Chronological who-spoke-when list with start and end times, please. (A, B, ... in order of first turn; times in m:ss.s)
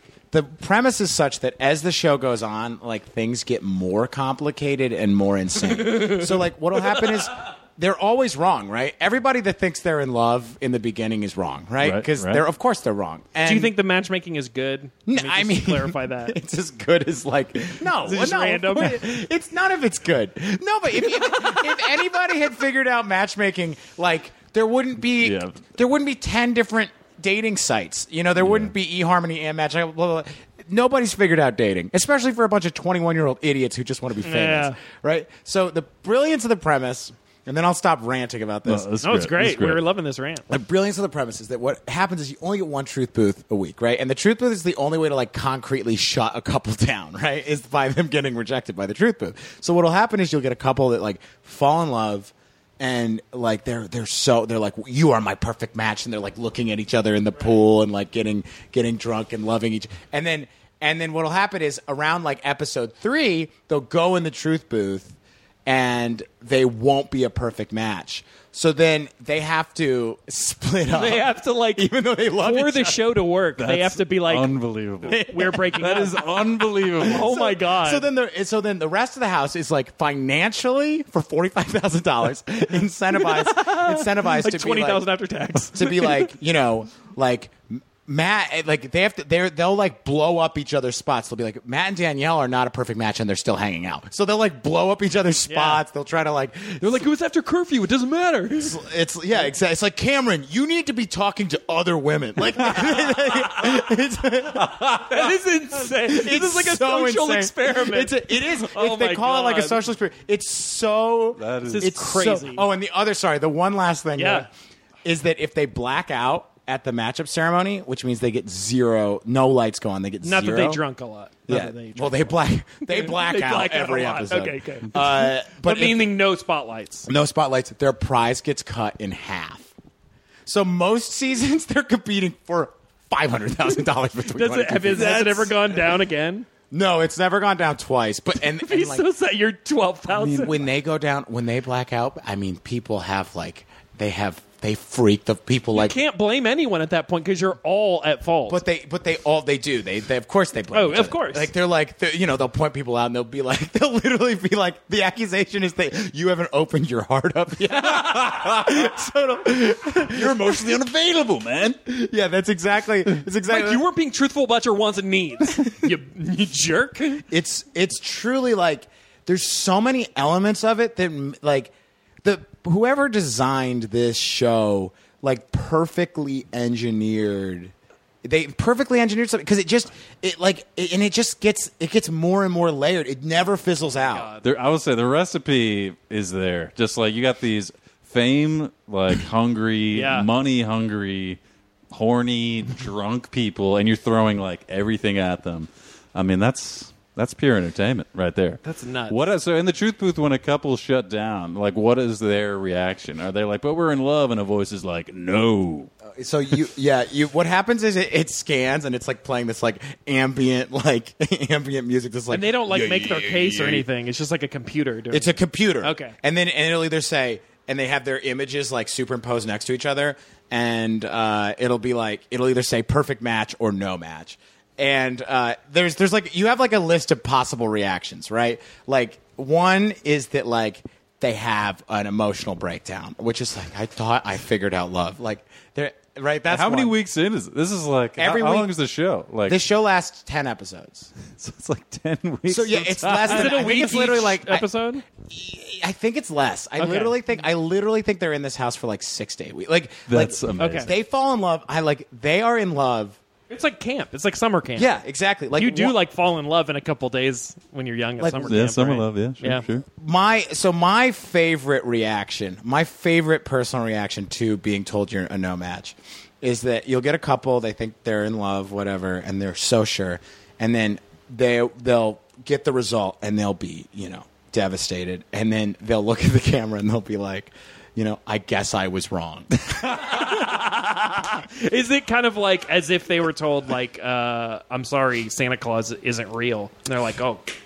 0:00.3-0:13.7 A
0:05.8-0:06.4 B
0:11.8-0:12.4 C
0:13.4-0:16.4 B
0:15.1-0:38.9 A
0:18.0-0:19.0 B
0:21.0-0:21.8 B
0:25.2-0:25.6 C
0:28.4-0:28.7 C
0:34.2-0:34.8 B
0:38.7-0:39.8 C
0:39.0-0:40.5 B
0:40.5-1:13.0 A
1:10.9-1:11.9 B
1:12.4-1:14.5 B
1:13.6-1:17.3 C
1:15.1-1:16.3 B
1:15.1-1:15.6 A
1:17.0-1:18.1 B
1:17.0-1:25.1 A
1:23.2-1:26.3 B
1:25.7-1:37.0 A
1:35.5-1:35.8 B
1:36.8-1:38.8 B
1:38.6-1:44.9 A
1:44.6-1:45.1 C
1:45.0-1:49.8 B
1:45.9-1:54.5 A
1:51.4-1:51.9 C
1:51.6-1:52.7 B
1:54.2-1:54.5 B
1:55.0-2:00.8 A
2:00.2-2:07.1 B
2:01.5-2:06.1 A
2:07.1-2:09.7 A
2:10.5-2:15.5 A
2:14.2-2:16.5 B
2:14.9-2:15.8 C
2:16.7-2:19.1 A
2:18.4-2:20.6 B
2:20.1-2:20.4 C
2:20.2-2:26.0 A
2:25.7-2:28.6 B
2:28.5-2:40.7 A
2:30.7-2:31.5 B
2:37.8-2:38.9 C
2:39.9-2:41.8 C
2:41.9-2:43.8 A
2:43.4-2:47.3 B
2:47.3-2:51.7 A
2:52.2-2:57.7 A
2:58.2-3:04.3 A
3:03.9-3:04.5 B
3:04.4-3:11.4 C
3:09.9-3:10.3 B
3:11.9-3:25.9 C
3:18.6-3:19.2 B
3:26.1-3:33.8 A
3:32.3-3:36.2 B
3:35.1-3:57.0 A
3:56.5-3:59.6 C
3:58.2-3:58.7 A
3:59.5-4:01.1 A
4:01.3-4:03.6 C
4:02.5-4:13.2 A
4:03.2-4:05.0 B
4:06.8-4:07.2 B
4:10.1-4:10.9 C
4:10.6-4:10.9 B
4:13.5-4:14.9 B
4:14.8-4:16.0 A
4:15.6-4:19.6 B
4:18.2-4:18.6 A
4:18.4-4:19.8 C
4:20.0-4:40.5 A
4:39.9-4:47.5 B